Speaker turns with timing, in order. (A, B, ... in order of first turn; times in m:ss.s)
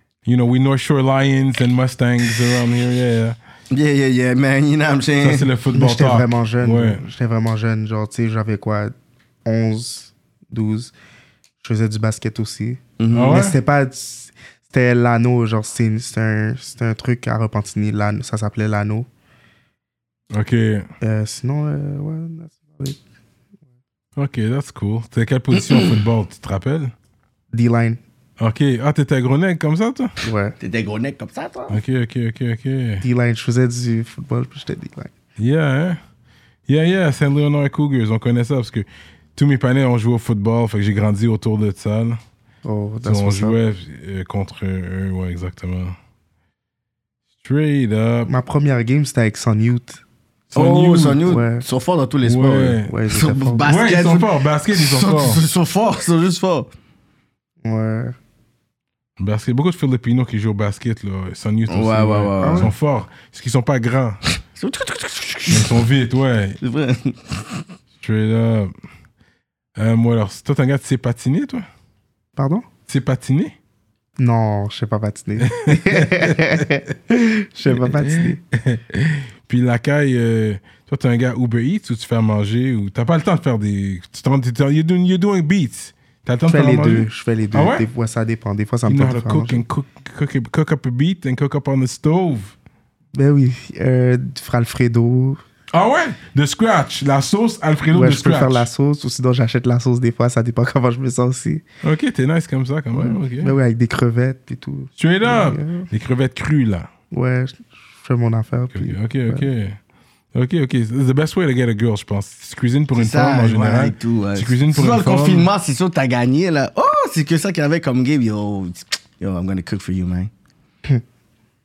0:00.2-0:03.4 A
0:03.7-0:05.5 B
0:05.2-0:07.0 A
0:05.7-0:08.9 C
0:09.4-0:10.9 C
0:11.6-0:19.1 C
0:13.0-0:13.4 B
0:13.1-0:13.6 A
0:20.3-0:20.9 A
0:21.0-0:23.0 C
0:24.2-0:26.9 A
0:25.6-0:25.9 B
0:27.5-0:28.0 C
0:28.4-0:30.1 A
0:30.2-0:30.5 C
0:30.6-0:31.8 B
0:31.7-0:33.0 A
0:33.0-0:35.1 C
0:35.4-0:36.0 A
0:36.7-0:42.2 A
0:42.6-0:43.6 C
0:43.0-0:45.9 A
0:47.4-0:48.3 A
0:48.3-0:50.0 C
0:50.5-0:51.2 A
0:50.5-0:56.7 B
0:51.2-0:51.6 C
0:52.2-0:53.0 A
0:52.8-0:53.7 C
0:53.6-0:55.4 A
0:57.6-0:58.2 C
0:59.2-1:04.2 A
1:01.7-1:02.7 B
1:02.4-1:02.7 C
1:04.5-1:05.8 B
1:05.5-1:06.6 A
1:06.6-1:07.6 B
1:08.0-1:08.7 A
1:09.8-1:11.6 A
1:12.4-1:12.6 C
1:12.9-1:13.5 A
1:14.2-1:18.4 C
1:15.4-1:16.4 A
1:18.0-1:27.9 A
1:26.5-1:29.6 C
1:28.9-1:32.5 A
1:33.1-1:35.4 C
1:35.7-1:38.7 A
1:37.9-1:41.6 C
1:41.8-1:43.5 A
1:42.9-1:45.9 C
1:45.0-1:46.9 A
1:47.1-1:49.4 C
1:48.7-1:49.8 A
1:50.3-1:55.5 A
1:52.9-2:00.3 B